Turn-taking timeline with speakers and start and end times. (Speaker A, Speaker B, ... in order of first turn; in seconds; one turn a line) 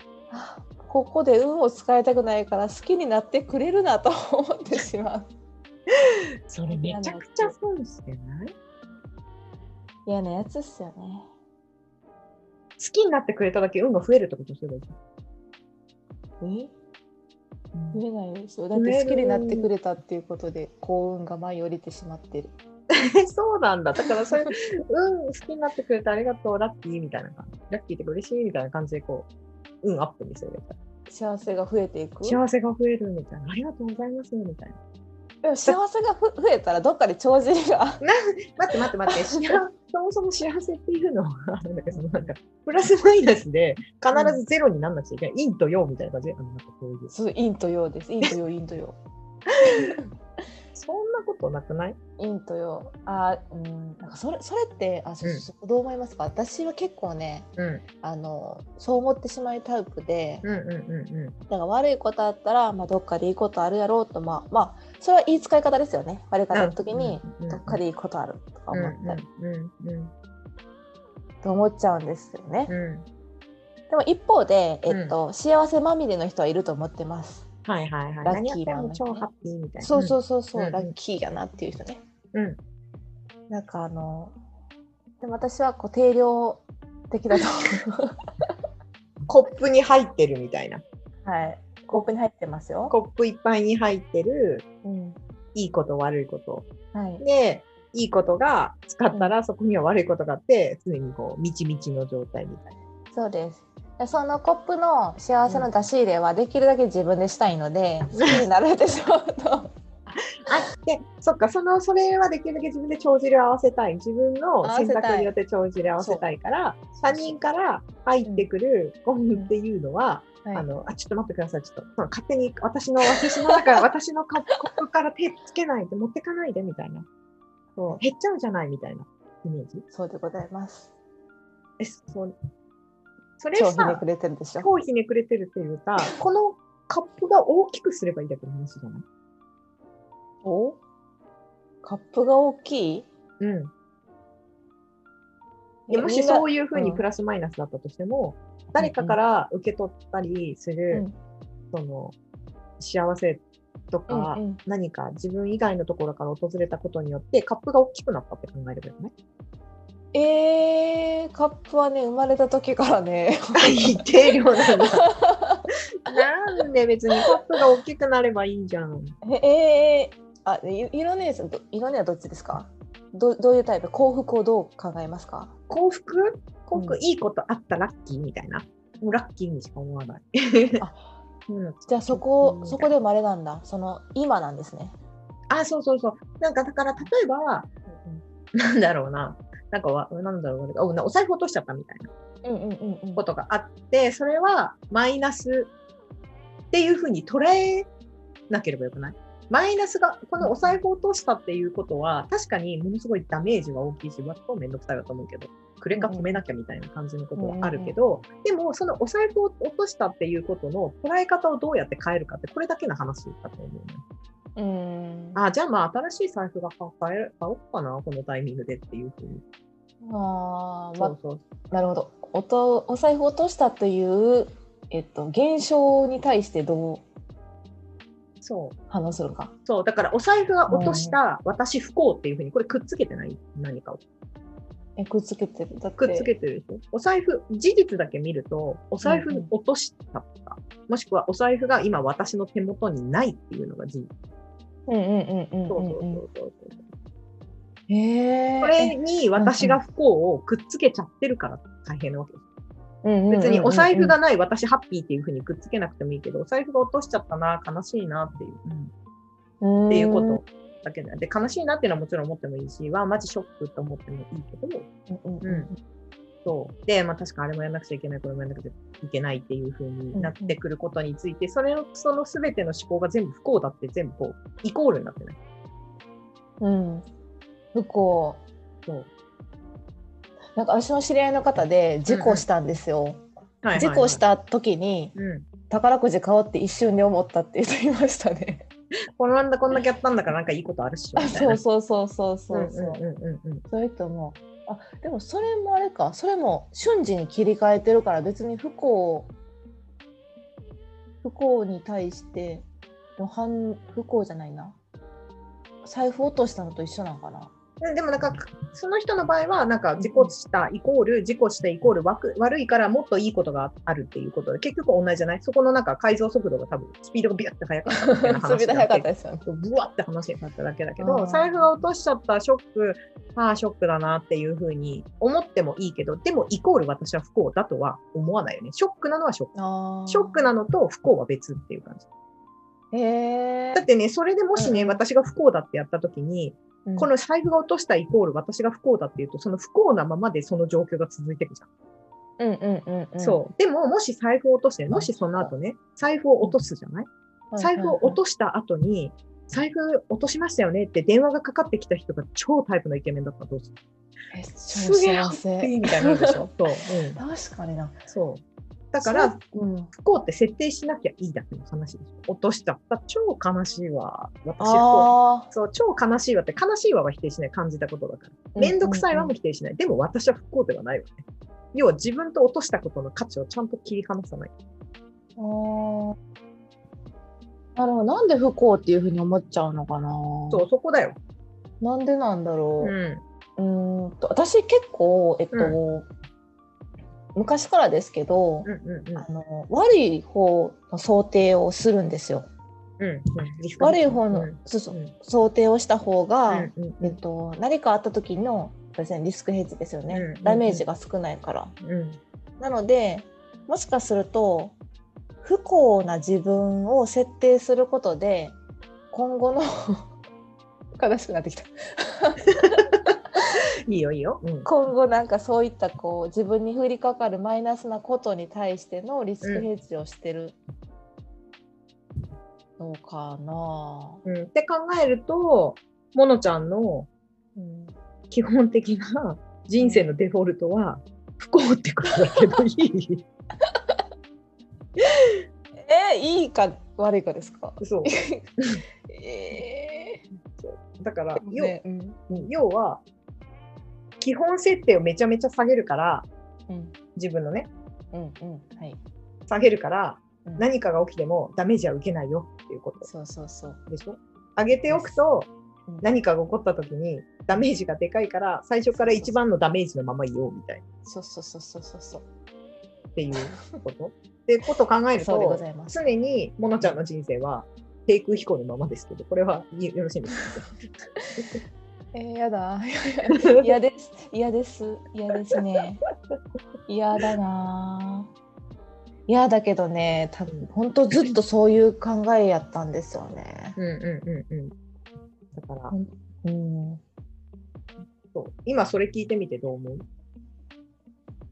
Speaker A: 0.3-5.3
Speaker B: 6.5-8.5
Speaker A: 6.7-7.5
Speaker A: 10.1-11.3
Speaker B: 12.8-14.9
Speaker A: 16.4-16.7
Speaker B: 17.7-18.0
Speaker A: 17.9-22.5
Speaker B: 18.7-19.7
Speaker B: 22.9-29.3
Speaker B: 29.8-30.8
Speaker A: 31.1-32.4
Speaker B: 32.2-34.8
Speaker A: 35.4-38.0
Speaker B: 38.0-47.1
Speaker A: 38.8-39.6
Speaker A: 44.1-44.4
Speaker A: 47.1-49.0
Speaker A: 49.6-50.1
Speaker B: 50.8-52.0
Speaker A: 52.2-57.5
Speaker B: 57.6-57.8
Speaker A: 58.0-60.5
Speaker B: 60.4-61.3
Speaker A: 61.5-69.2
Speaker B: 66.5-67.8
Speaker B: 68.7-70.1
Speaker A: 71.4-72.7
Speaker B: 72.7-73.1
Speaker A: 73.9-77.5
Speaker B: 74.9-75.2
Speaker B: 77.7-80.9
Speaker A: 78.2-79.2
Speaker A: 79.8-82.0
Speaker B: 82.3-82.6
Speaker A: 83.5-84.3
Speaker A: 85.2-88.2
Speaker B: 89.3-90.8
Speaker A: 91.2-92.9
Speaker B: 92.9-94.7
Speaker A: 94.8-95.2
Speaker B: 95.5-96.7
Speaker A: 96.9-97.2
Speaker B: 97.2-102.7
Speaker A: 103.1-109.7
Speaker B: 108.2-108.4
Speaker B: 110.1-127.1
Speaker A: 114.6-115.3
Speaker A: 116.0-116.3
Speaker A: 117.1-117.3
Speaker A: 123.1-123.8
Speaker B: 127.8-129.8
Speaker A: 129.9-130.9
Speaker B: 131.8-132.3
Speaker B: 133.4-134.0
Speaker A: 133.5-134.7
Speaker B: 134.6-139.0
Speaker A: 140.4-140.8
Speaker A: 141.8-143.1
Speaker B: 143.4-143.7
Speaker A: 145.9-147.0
Speaker B: 145.9-151.0
Speaker A: 148.8-149.2
Speaker B: 151.7-152.2
Speaker B: 152.8-159.1
Speaker A: 154.1-154.6
Speaker A: 160.1-164.0
Speaker B: 163.6-165.0
Speaker A: 164.9-166.2
Speaker B: 166.1-169.2
Speaker A: 169.2-175.5
Speaker B: 175.7-180.8
Speaker A: 176.8-177.0
Speaker A: 180.8-181.1
Speaker B: 181.5-182.9
Speaker A: 181.9-184.9
Speaker B: 185.5-187.8
Speaker B: 188.6-192.1
Speaker A: 192.4-193.2
Speaker B: 193.2-195.7
Speaker B: 196.7-197.9
Speaker B: 198.5-214.0
Speaker A: 200.4-200.8
Speaker A: 205.9-206.4
Speaker A: 207.3-208.0
Speaker A: 214.6-215.4
Speaker B: 215.3-219.4
Speaker A: 220.0-221.2
Speaker B: 221.0-221.4
Speaker A: 221.7-227.0
Speaker B: 228.4-228.8
Speaker A: 228.9-229.5
Speaker B: 229.7-234.0
Speaker A: 230.7-231.2
Speaker A: 235.0-236.3
Speaker B: 236.0-244.1
Speaker A: 239.0-239.5
Speaker A: 244.9-246.2
Speaker B: 245.7-246.8
Speaker A: 247.9-249.8
Speaker B: 248.6-252.4
Speaker A: 253.0-254.2
Speaker B: 253.3-258.9
Speaker A: 259.6-260.4
Speaker B: 259.9-264.9
Speaker A: 265.1-265.8
Speaker B: 265.4-265.7
Speaker B: 266.4-275.4
Speaker A: 270.1-270.6
Speaker A: 276.6-277.1
Speaker A: 277.7-278.4
Speaker A: 280.6-285.1
Speaker B: 282.1-282.4
Speaker B: 283.6-284.2
Speaker B: 285.1-285.5
Speaker A: 285.7-288.7
Speaker B: 289.2-291.6
Speaker A: 291.2-293.0
Speaker B: 292.5-293.6
Speaker A: 293.7-299.3
Speaker A: 301.2-302.6
Speaker A: 303.2-304.8
Speaker A: 305.8-307.5
Speaker B: 307.8-329.5
Speaker A: 310.0-310.3
Speaker A: 317.9-319.4
Speaker A: 321.0-321.7
Speaker A: 329.5-330.5
Speaker B: 330.1-332.1
Speaker A: 332.9-333.9
Speaker B: 333.8-341.7
Speaker A: 334.6-335.0
Speaker A: 336.9-337.1
Speaker A: 342.4-343.4
Speaker B: 343.2-353.7
Speaker A: 344.9-345.5
Speaker A: 347.5-348.2
Speaker A: 354.3-356.5
Speaker B: 354.7-357.2
Speaker A: 357.2-358.0
Speaker B: 358.1-358.4
Speaker B: 358.9-359.4
Speaker A: 359.0-359.9
Speaker B: 359.9-371.2
Speaker A: 364.6-365.5
Speaker A: 368.6-369.3
Speaker B: 371.7-374.5
Speaker A: 375.4-376.2
Speaker A: 377.8-380.6
Speaker B: 380.5-381.2
Speaker A: 381.8-382.9
Speaker B: 382.8-383.2
Speaker A: 383.6-386.1
Speaker A: 387.4-392.5
Speaker B: 388.6-389.2
Speaker B: 393.0-395.1
Speaker A: 393.8-401.7
Speaker B: 396.5-397.2
Speaker B: 400.1-400.8
Speaker B: 401.8-402.2
Speaker A: 402.6-404.8
Speaker A: 405.4-408.6
Speaker A: 409.1-410.1
Speaker A: 410.9-412.8
Speaker B: 412.6-414.7
Speaker A: 414.6-420.6
Speaker B: 419.4-419.7
Speaker A: 422.8-424.2
Speaker B: 424.2-427.1
Speaker A: 427.6-427.9
Speaker B: 428.3-433.2
Speaker A: 429.8-430.1
Speaker A: 433.7-434.0
Speaker A: 435.9-438.5
Speaker B: 437.8-438.1
Speaker A: 439.1-440.2
Speaker B: 440.6-441.8
Speaker A: 441.4-442.5
Speaker B: 442.3-443.0
Speaker B: 444.2-446.3
Speaker A: 446.7-446.9
Speaker B: 447.2-447.7
Speaker A: 448.1-449.0
Speaker B: 449.5-453.1
Speaker A: 453.0-453.8
Speaker B: 453.9-455.5
Speaker A: 454.9-455.2
Speaker B: 456.0-460.8
Speaker A: 458.9-459.3
Speaker A: 461.1-462.2
Speaker B: 463.2-470.7
Speaker A: 465.1-466.1
Speaker A: 472.1-476.0
Speaker B: 473.4-473.7
Speaker A: 476.9-478.3
Speaker A: 479.3-483.8
Speaker B: 483.8-484.7
Speaker B: 485.5-485.9
Speaker A: 485.9-487.0
Speaker B: 488.3-490.1